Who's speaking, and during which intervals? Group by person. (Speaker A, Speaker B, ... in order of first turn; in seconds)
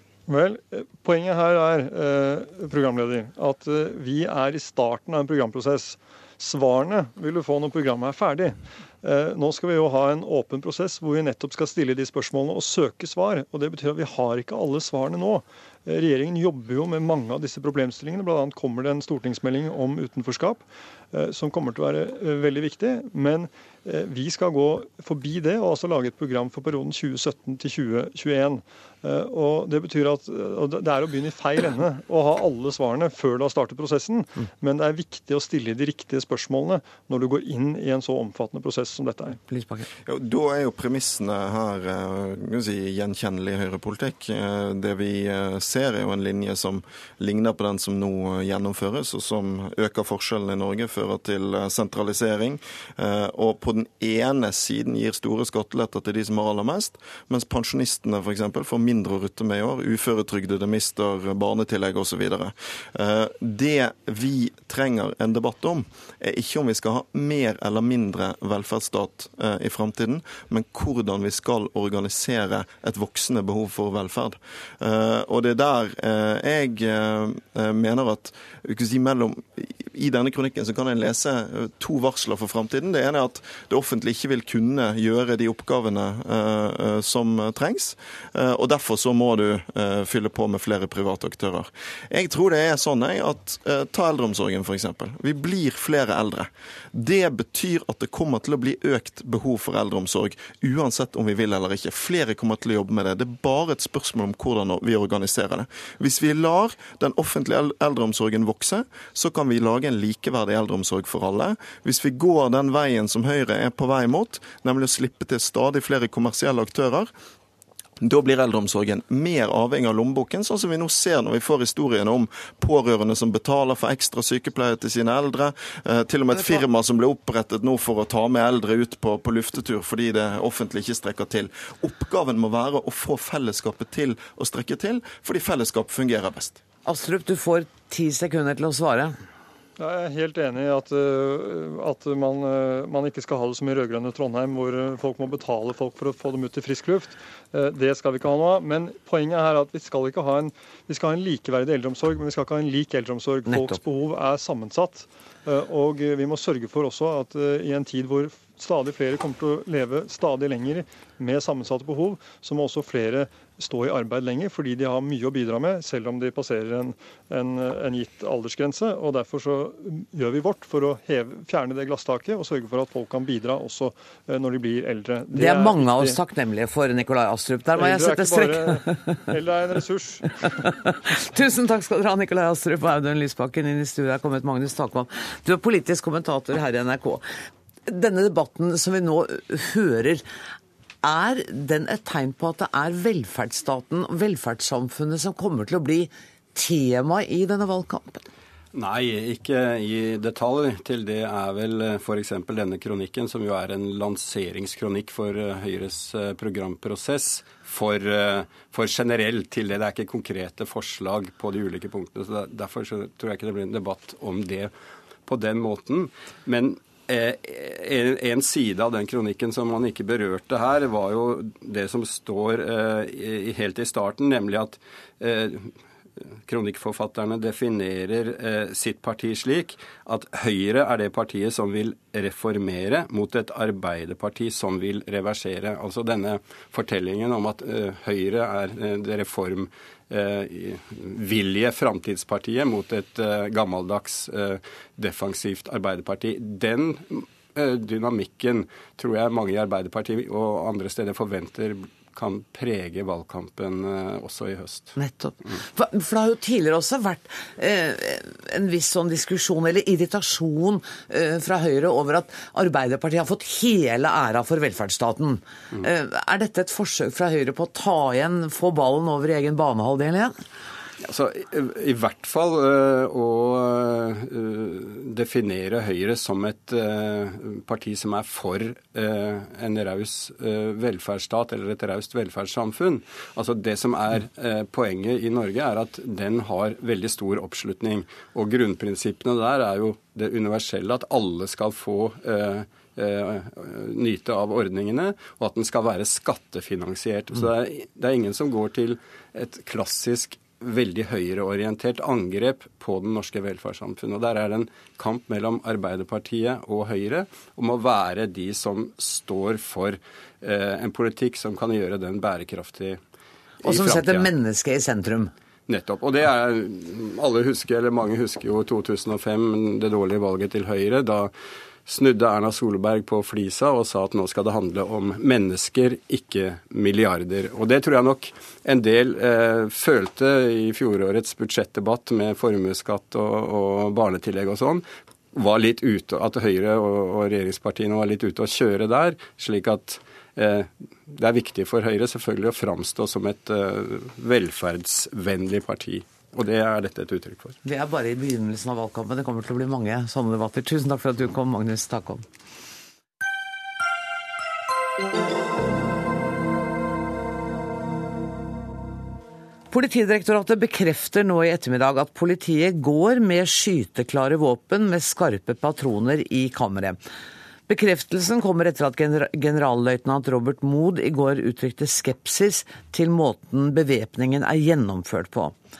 Speaker A: 0.3-39.4, 139.8-176.2, 177.8-180.3
Speaker B: 39.5-39.9, 126.3-126.6, 136.8-139.2, 153.5-153.8, 175.3-179.2, 180.6-187.2, 187.9-190.2, 191.0-198.3, 255.0-270.4, 313.6-315.3, 347.6-352.2, 359.7-367.0, 367.7-375.6
Speaker C: 40.1-117.1, 118.0-136.6
Speaker D: 198.7-214.7, 215.2-225.8, 226.4-255.6, 271.0-313.0, 313.6-314.3, 315.7-321.3, 321.9-347.6